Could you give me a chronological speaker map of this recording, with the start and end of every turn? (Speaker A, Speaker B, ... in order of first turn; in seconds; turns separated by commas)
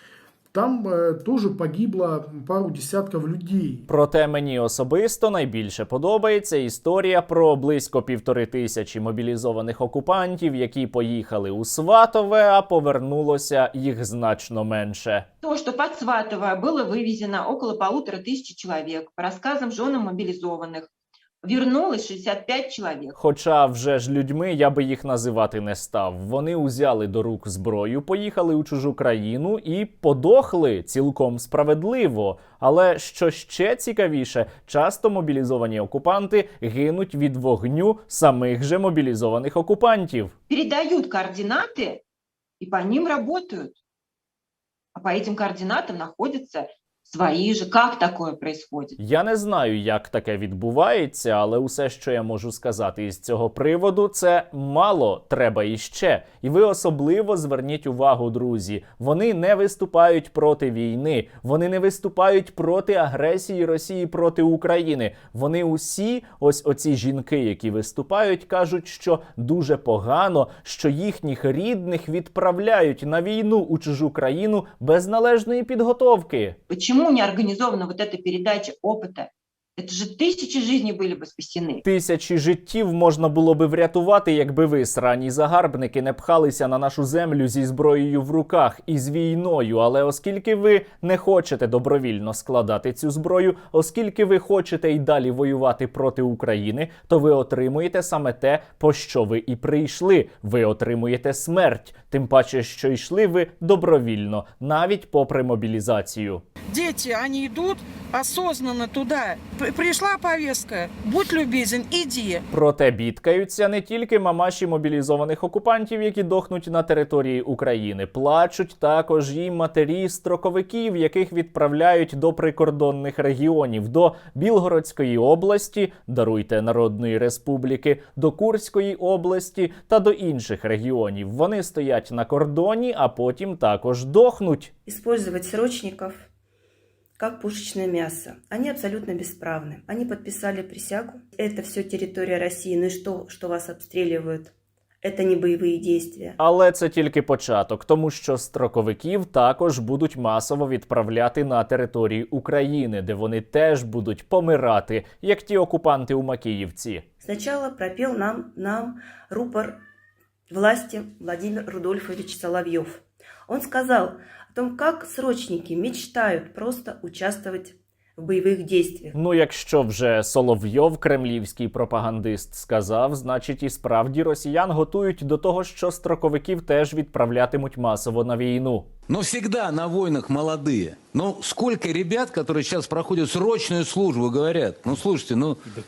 Speaker A: 0.5-3.9, Speaker B: 3.9-15.3, Speaker C: 15.4-20.9, Speaker C: 21.4-23.1, Speaker B: 23.1-40.3, Speaker C: 40.5-42.0, Speaker C: 42.6-43.8, Speaker C: 45.0-49.0, Speaker B: 49.0-76.6, Speaker C: 76.7-81.8, Speaker B: 81.8-106.4, Speaker D: 106.7-112.4, Speaker B: 112.5-134.7, Speaker E: 134.9-136.3, Speaker E: 137.2-144.5, Speaker E: 145.0-146.4, Speaker B: 146.4-157.0, Speaker E: 157.2-159.8, Speaker E: 160.5-169.2, Speaker B: 169.1-178.9, Speaker F: 179.1-185.6